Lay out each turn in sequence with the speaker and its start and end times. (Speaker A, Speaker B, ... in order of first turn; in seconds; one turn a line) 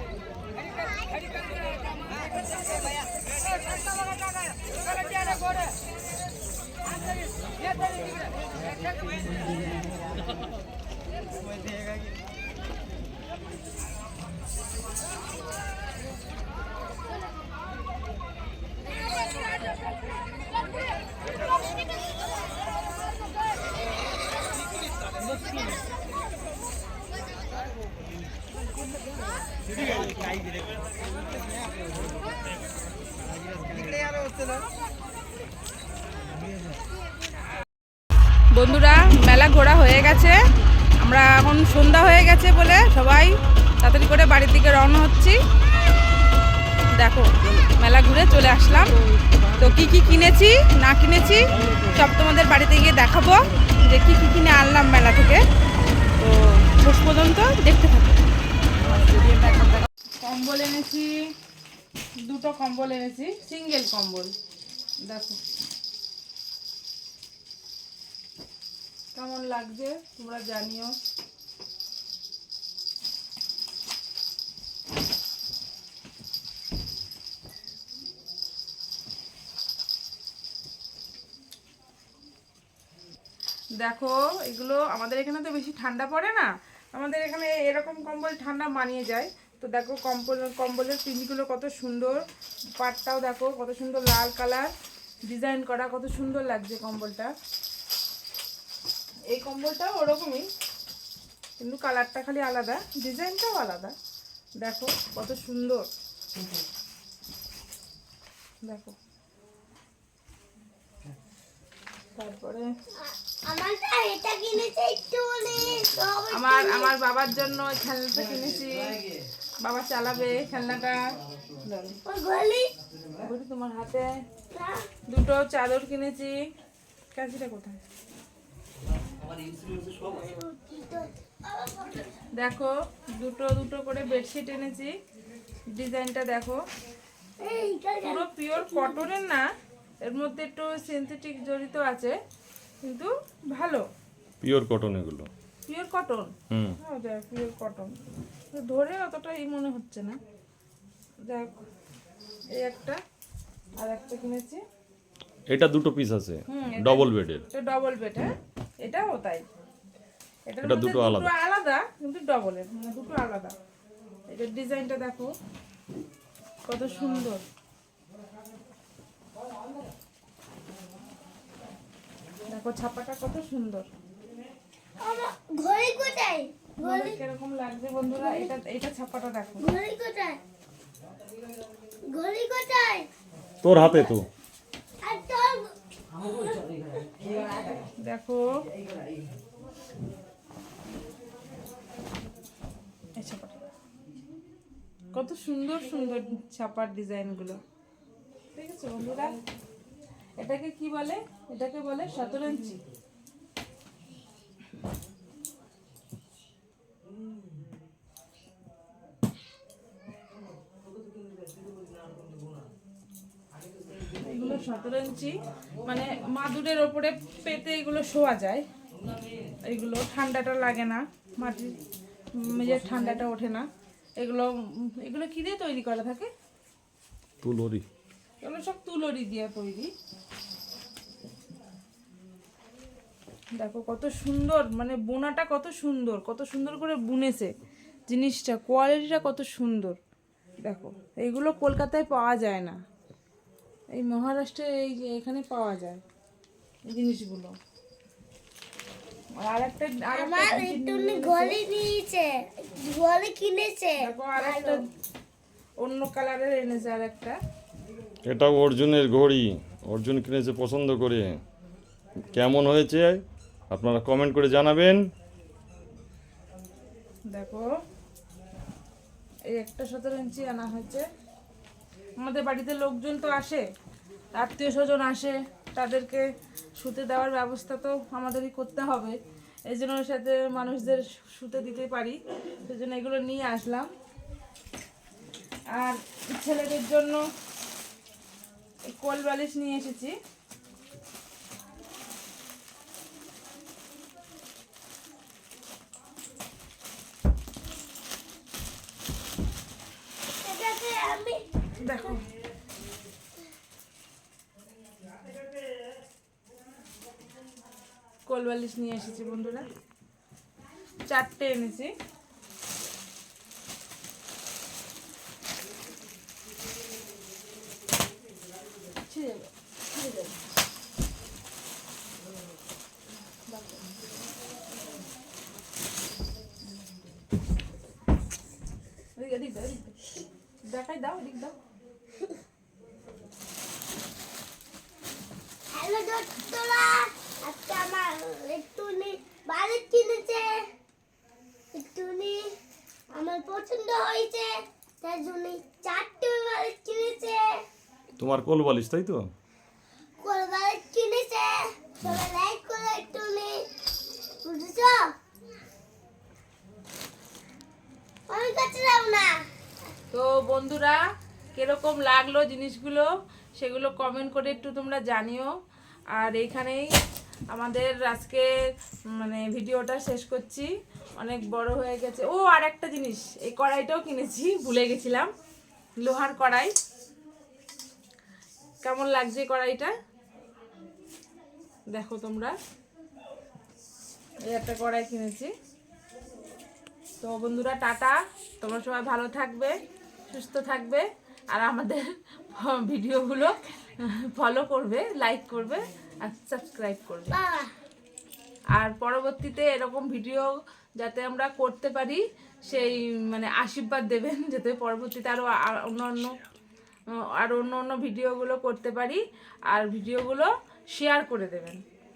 Speaker A: 38.5-40.4
Speaker A: 41.0-45.4
Speaker A: 46.9-48.9
Speaker A: 49.6-55.4
Speaker A: 56.2-58.2
Speaker A: 58.9-61.3
Speaker A: 62.2-64.3
Speaker A: 65.0-65.4
Speaker A: 69.2-71.0
Speaker A: 83.8-92.2
Speaker A: 92.8-94.7
Speaker A: 95.3-97.3
Speaker A: 99.3-100.5
Speaker A: 101.6-104.0
Speaker A: 104.6-105.9
Speaker A: 108.7-109.0
Speaker A: 112.2-112.7
Speaker B: 113.0-116.9
Speaker A: 116.3-119.0
Speaker A: 119.6-121.0
Speaker A: 121.6-122.0
Speaker B: 122.0-122.7
Speaker A: 123.2-124.1
Speaker B: 124.5-124.9
Speaker A: 125.1-126.3
Speaker A: 127.2-127.8
Speaker B: 129.9-132.2
Speaker A: 132.3-134.9
Speaker A: 135.8-136.6
Speaker B: 137.4-139.0
Speaker A: 138.0-139.4
Speaker A: 140.0-142.2
Speaker A: 142.8-143.8
Speaker C: 144.4-145.3
Speaker A: 145.7-147.9
Speaker C: 146.5-146.8
Speaker A: 148.5-150.2
Speaker A: 151.3-151.6
Speaker A: 152.6-153.0
Speaker A: 153.8-154.6
Speaker C: 155.5-157.4
Speaker A: 156.5-158.3
Speaker A: 158.8-159.5
Speaker A: 160.5-163.5
Speaker C: 160.6-161.3
Speaker A: 164.3-165.3
Speaker A: 166.7-167.4
Speaker A: 172.5-173.9
Speaker B: 175.0-177.2
Speaker A: 176.8-179.7
Speaker B: 178.2-178.5
Speaker B: 179.6-180.4
Speaker B: 182.1-183.1
Speaker C: 183.6-184.3
Speaker B: 183.8-184.1
Speaker B: 185.0-187.3
Speaker A: 187.6-188.4
Speaker A: 193.2-193.6
Speaker A: 195.1-197.6
Speaker A: 198.5-199.4
Speaker A: 200.4-202.8
Speaker A: 214.2-218.7
Speaker A: 219.7-221.8
Speaker A: 222.4-223.7
Speaker A: 224.2-226.3
Speaker C: 227.4-227.9
Speaker A: 228.4-229.9
Speaker A: 233.6-237.5
Speaker A: 238.1-240.0
Speaker A: 240.6-242.8
Speaker A: 243.9-246.0
Speaker A: 246.9-247.6
Speaker A: 249.3-251.6
Speaker B: 250.1-254.8
Speaker A: 254.0-254.8
Speaker A: 255.8-257.4
Speaker C: 258.3-261.4
Speaker C: 262.3-265.0
Speaker A: 267.3-267.7
Speaker A: 269.5-271.1
Speaker A: 272.2-273.6
Speaker A: 274.3-276.3
Speaker A: 276.8-279.2
Speaker A: 279.7-283.9
Speaker A: 285.8-287.2
Speaker A: 288.9-290.1
Speaker B: 300.3-301.6
Speaker A: 301.8-302.2
Speaker A: 308.3-309.7
Speaker A: 311.1-311.9
Speaker A: 319.1-320.3
Speaker A: 323.5-323.8
Speaker A: 329.2-330.0
Speaker A: 330.7-331.6
Speaker B: 335.7-340.7
Speaker B: 341.7-342.5
Speaker B: 343.1-347.6
Speaker C: 348.2-349.3
Speaker B: 350.2-353.7
Speaker B: 354.4-355.1
Speaker B: 358.3-359.4
Speaker A: 360.1-361.0
Speaker A: 361.6-365.5
Speaker A: 366.2-366.9
Speaker A: 367.5-368.5
Speaker A: 369.1-375.3
Speaker A: 376.0-376.7
Speaker A: 378.8-379.9
Speaker A: 381.9-382.6
Speaker A: 384.5-385.5
Speaker A: 387.2-389.8
Speaker A: 390.3-397.4
Speaker B: 397.3-397.7
Speaker A: 398.8-406.4
Speaker A: 407.2-411.8